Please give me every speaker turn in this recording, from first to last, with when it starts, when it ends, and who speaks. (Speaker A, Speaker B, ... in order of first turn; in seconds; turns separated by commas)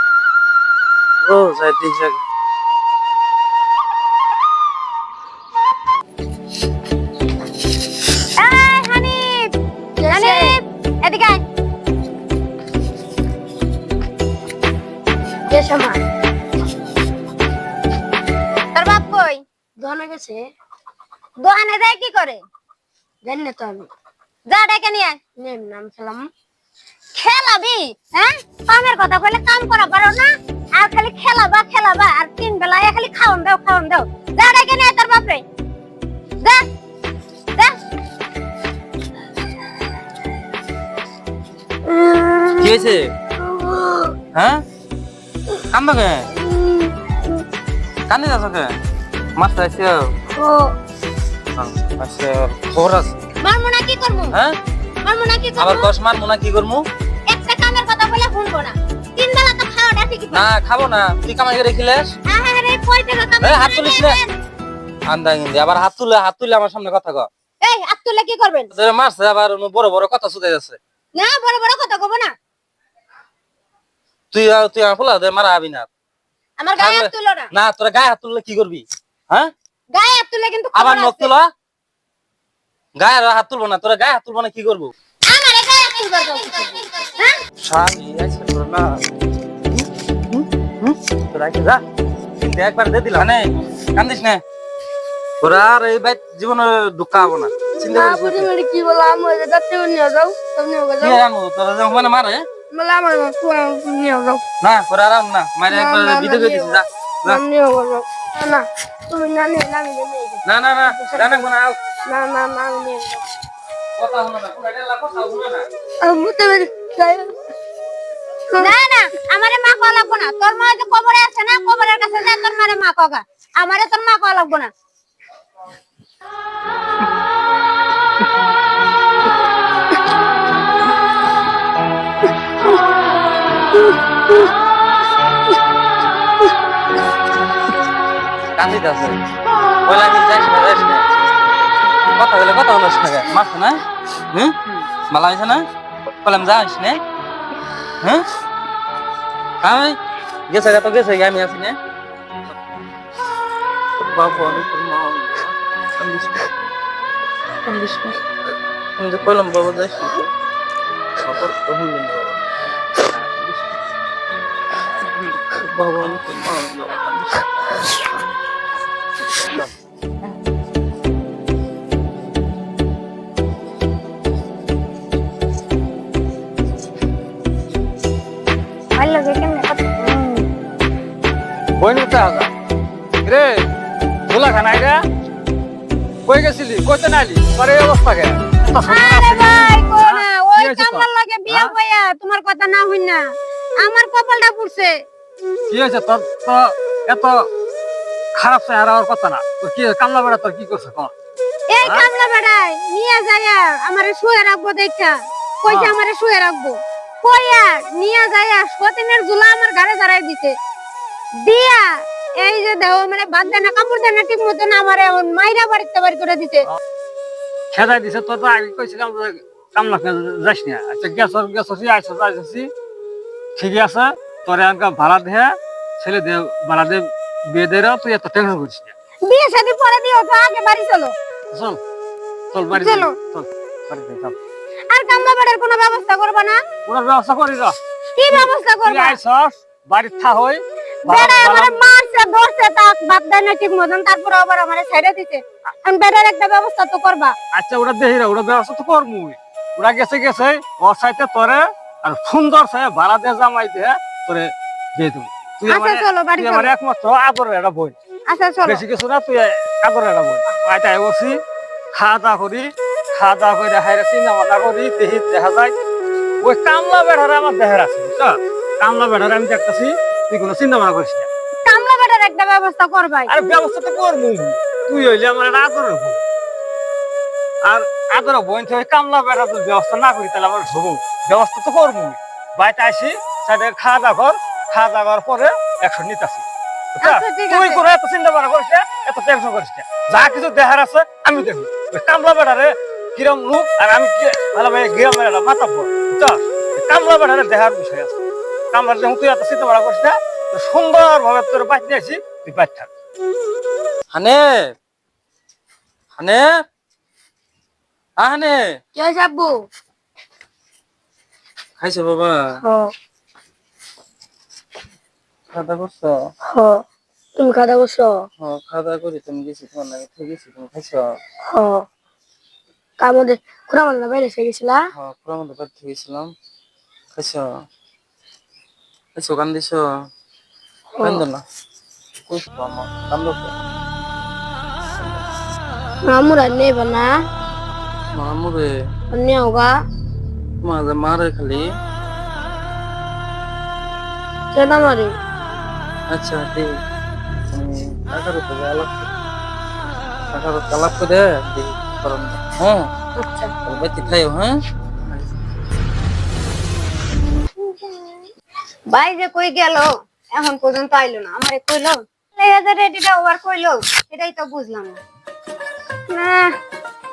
Speaker A: 1.2-2.2, Speaker B: 8.4-9.5, Speaker C: 10.0-10.5, Speaker B: 10.1-11.4, Speaker C: 15.5-16.0, Speaker B: 18.7-19.4, Speaker C: 19.8-20.4, Speaker B: 21.4-22.4, Speaker C: 23.2-23.9, Speaker B: 24.5-25.2, Speaker C: 25.4-26.3, Speaker B: 27.1-35.4, Speaker B: 36.4-36.6, Speaker C: 41.9-42.8, Speaker A: 42.6-43.1, Speaker C: 43.4-44.1, Speaker A: 44.3-44.6, Speaker A: 45.7-46.3, Speaker C: 46.4-46.9, Speaker A: 48.1-48.7, Speaker A: 49.4-50.0, Speaker C: 50.3-50.8, Speaker A: 51.5-53.1, Speaker B: 53.4-54.4, Speaker A: 54.3-54.6, Speaker B: 55.0-55.9, Speaker A: 55.6-56.8, Speaker B: 57.3-60.5, Speaker A: 60.3-62.1, Speaker B: 62.2-64.3, Speaker A: 63.4-64.2, Speaker A: 65.1-67.3, Speaker B: 67.6-68.7, Speaker A: 68.7-70.8, Speaker B: 71.1-72.3, Speaker A: 74.3-75.9, Speaker B: 76.6-77.5, Speaker A: 76.8-79.5, Speaker B: 79.9-81.3, Speaker A: 80.7-81.5, Speaker A: 83.0-84.9, Speaker B: 85.3-87.4, Speaker A: 87.6-89.0, Speaker A: 89.7-91.8, Speaker A: 92.4-94.4, Speaker A: 95.4-98.5, Speaker C: 97.8-101.2, Speaker A: 101.0-102.4, Speaker C: 102.7-104.4, Speaker A: 104.6-107.4, Speaker C: 105.7-111.4, Speaker A: 110.4-111.8, Speaker C: 112.1-113.2, Speaker A: 114.0-115.7, Speaker C: 116.0-117.3, Speaker B: 118.6-124.7, Speaker A: 138.6-139.2, Speaker A: 139.8-141.0, Speaker A: 142.2-145.7, Speaker A: 146.2-147.0, Speaker A: 149.6-151.8, Speaker A: 154.1-156.6, Speaker A: 157.7-158.2, Speaker A: 159.0-160.3, Speaker A: 161.2-162.4, Speaker A: 163.1-163.6, Speaker A: 165.2-167.5, Speaker B: 178.9-180.5, Speaker D: 181.8-182.5, Speaker D: 183.2-183.6, Speaker D: 184.3-185.0, Speaker D: 186.2-191.7, Speaker B: 188.8-193.2, Speaker B: 193.8-194.9, Speaker D: 195.7-197.5, Speaker D: 198.3-201.1, Speaker B: 201.7-210.5, Speaker D: 201.8-202.1, Speaker D: 205.7-205.9, Speaker B: 211.4-216.7, Speaker D: 217.7-222.7, Speaker D: 223.6-228.9, Speaker B: 229.2-231.1, Speaker D: 231.5-231.8, Speaker D: 232.5-234.3, Speaker B: 232.7-233.1, Speaker B: 234.9-236.6, Speaker D: 236.8-237.8, Speaker B: 238.1-239.2, Speaker D: 238.3-241.8, Speaker B: 241.0-247.3, Speaker D: 247.5-257.9, Speaker B: 255.7-256.7, Speaker B: 258.3-258.8, Speaker D: 258.6-261.4, Speaker D: 261.9-265.7, Speaker D: 266.4-271.3, Speaker B: 271.6-273.3, Speaker D: 273.3-276.2, Speaker D: 277.6-286.4, Speaker D: 286.9-298.1, Speaker B: 287.0-287.8, Speaker D: 298.7-302.9, Speaker A: 304.1-304.7, Speaker A: 306.1-306.4, Speaker A: 308.2-308.6, Speaker C: 308.9-309.6, Speaker A: 311.8-312.4, Speaker C: 312.6-312.9, Speaker A: 315.5-316.3, Speaker C: 316.5-316.8, Speaker C: 317.4-318.3, Speaker A: 318.4-321.2, Speaker C: 321.5-321.9, Speaker C: 323.0-324.8, Speaker A: 324.9-326.3, Speaker A: 327.1-327.5, Speaker A: 329.1-329.8, Speaker A: 331.0-331.4, Speaker A: 332.3-333.5, Speaker C: 336.0-337.1, Speaker A: 338.1-338.7, Speaker C: 339.1-339.7, Speaker A: 340.6-341.7, Speaker C: 344.5-345.1, Speaker A: 346.1-346.8, Speaker A: 347.5-349.0, Speaker A: 350.3-352.9, Speaker B: 353.2-353.5, Speaker A: 353.6-354.6, Speaker B: 357.7-358.2, Speaker B: 358.9-365.0, Speaker B: 366.1-366.5